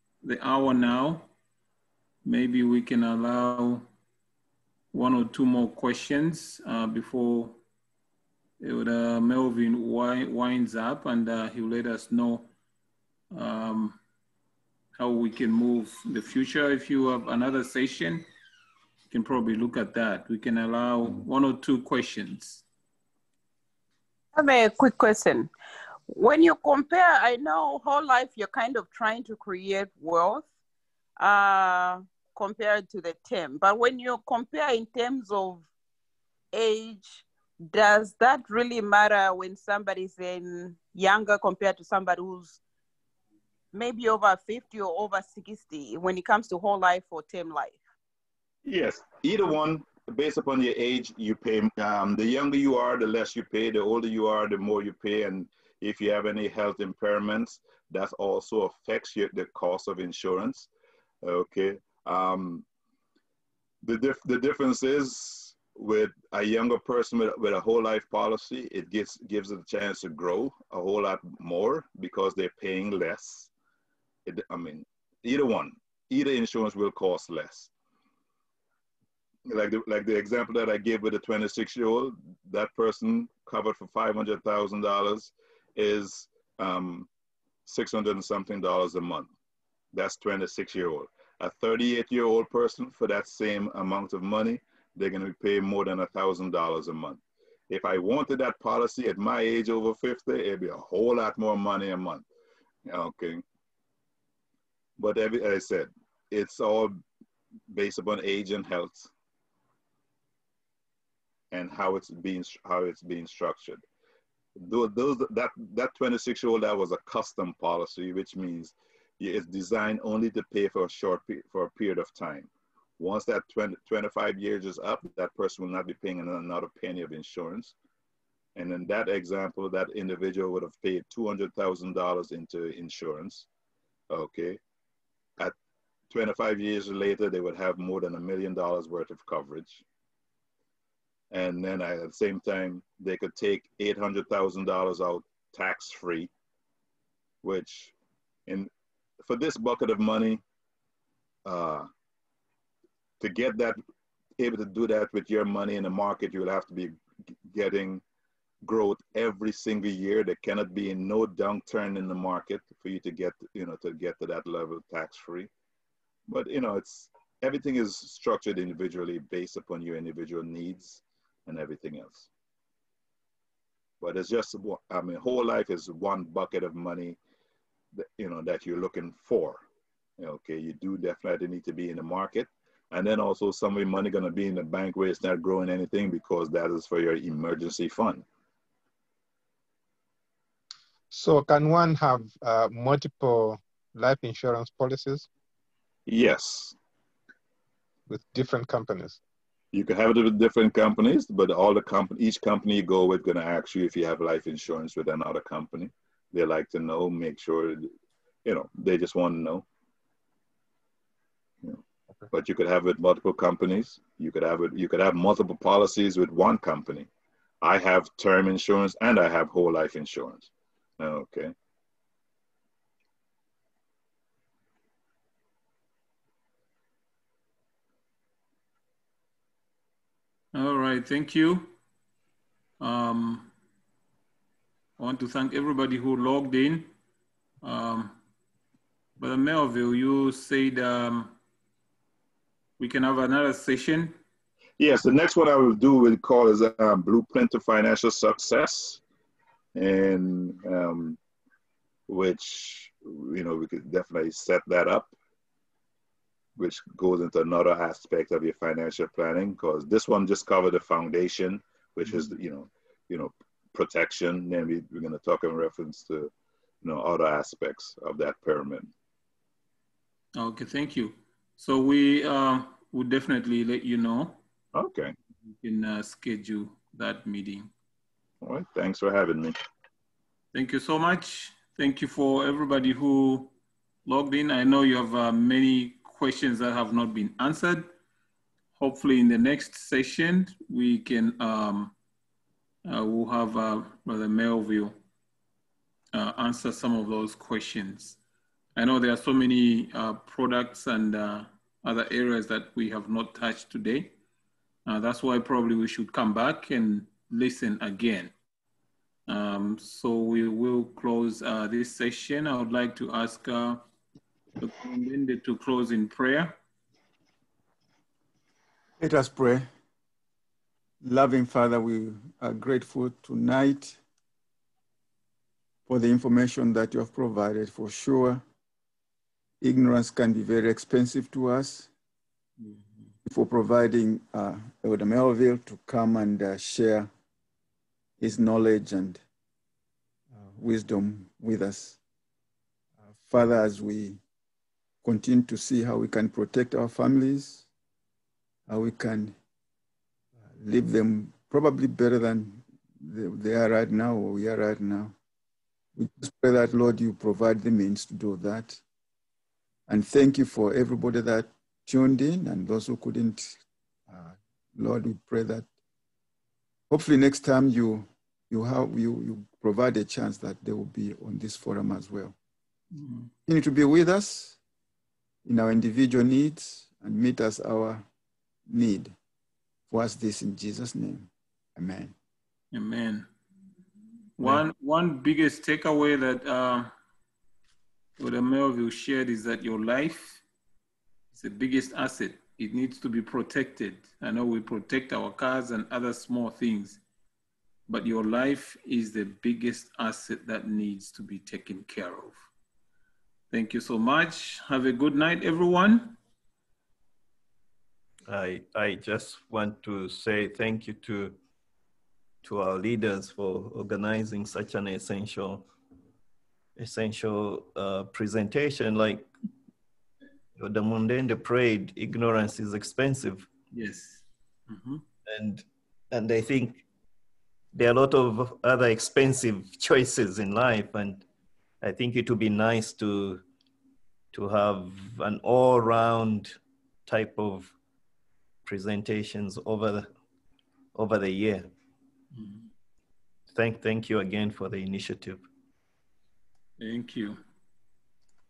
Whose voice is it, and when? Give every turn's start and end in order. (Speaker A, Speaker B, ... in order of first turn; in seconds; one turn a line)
Speaker A: 0.2-1.3
Speaker A: 2.2-3.9
Speaker A: 4.9-7.6
Speaker A: 8.6-12.5
Speaker A: 13.3-14.0
Speaker A: 14.9-18.2
Speaker A: 19.1-22.6
Speaker B: 24.3-25.5
Speaker B: 26.1-30.5
Speaker B: 31.2-35.7
Speaker B: 36.5-42.6
Speaker B: 43.7-47.8
Speaker C: 48.6-60.7
Speaker C: 61.2-62.6
Speaker C: 63.8-73.5
Speaker C: 74.2-77.7
Speaker C: 79.5-87.1
Speaker C: 87.7-89.3
Speaker C: 89.9-102.2
Speaker C: 102.8-103.4
Speaker C: 105.0-107.0
Speaker C: 107.7-109.1
Speaker C: 111.5-113.8
Speaker C: 114.5-127.7
Speaker C: 128.6-133.5
Speaker C: 134.1-134.6
Speaker C: 136.1-139.8
Speaker C: 141.3-146.3
Speaker C: 147.4-147.9
Speaker C: 149.2-150.4
Speaker C: 151.4-151.9
Speaker C: 153.2-153.8
Speaker C: 154.4-156.9
Speaker C: 157.5-158.0
Speaker C: 158.6-165.5
Speaker C: 166.3-172.3
Speaker C: 174.0-177.2
Speaker C: 177.9-179.6
Speaker C: 180.2-188.2
Speaker D: 191.1-195.3
Speaker C: 196.1-196.8
Speaker D: 198.1-199.2
Speaker C: 199.7-207.9
Speaker C: 208.4-209.6
Speaker C: 212.3-217.1
Speaker C: 217.6-221.5
Speaker A: 230.5-231.7
Speaker A: 232.8-233.5
Speaker A: 235.0-236.9
Speaker A: 237.6-238.2
Speaker A: 239.2-241.3
Speaker A: 242.8-244.2
Speaker C: 244.8-249.0
Speaker C: 249.7-251.2
Speaker C: 252.1-255.1
Speaker C: 256.6-266.3
Speaker C: 266.8-268.9
Speaker A: 270.4-274.4
Speaker C: 274.7-275.1
Speaker A: 275.6-277.7
Speaker C: 278.4-279.6
Speaker A: 280.5-283.5
Speaker A: 284.0-287.9
Speaker A: 288.8-291.9
Speaker A: 292.8-295.0
Speaker A: 296.1-298.2
Speaker A: 298.8-304.1
Speaker A: 304.9-308.3
Speaker A: 309.3-313.8
Speaker A: 314.6-316.5
Speaker E: 319.0-319.7
Speaker E: 321.0-324.0
Speaker E: 325.9-328.4
Speaker E: 329.6-331.9
Speaker A: 332.6-332.9
Speaker E: 333.2-337.1
Speaker E: 338.2-339.2
Speaker E: 340.3-342.0
Speaker E: 343.2-344.2
Speaker E: 345.0-347.6
Speaker E: 348.7-349.4
Speaker E: 350.6-355.1
Speaker E: 355.9-358.8
Speaker E: 359.9-365.7
Speaker E: 366.9-372.3
Speaker A: 372.9-373.3
Speaker E: 373.5-374.6
Speaker E: 375.4-378.1
Speaker E: 378.7-379.1
Speaker E: 379.9-382.1
Speaker A: 382.7-383.3
Speaker A: 384.4-386.9
Speaker A: 388.2-390.4
Speaker A: 391.3-397.0
Speaker A: 397.9-402.4
Speaker A: 403.5-406.1
Speaker F: 408.3-411.4
Speaker F: 412.4-415.7
Speaker F: 416.8-419.3
Speaker F: 420.6-423.5
Speaker A: 423.7-425.0
Speaker F: 425.3-426.8
Speaker F: 427.7-431.2
Speaker F: 431.8-433.4
Speaker F: 434.3-437.7
Speaker F: 438.6-440.1
Speaker F: 440.9-441.7
Speaker A: 442.4-442.6
Speaker F: 443.5-445.4
Speaker A: 446.8-447.4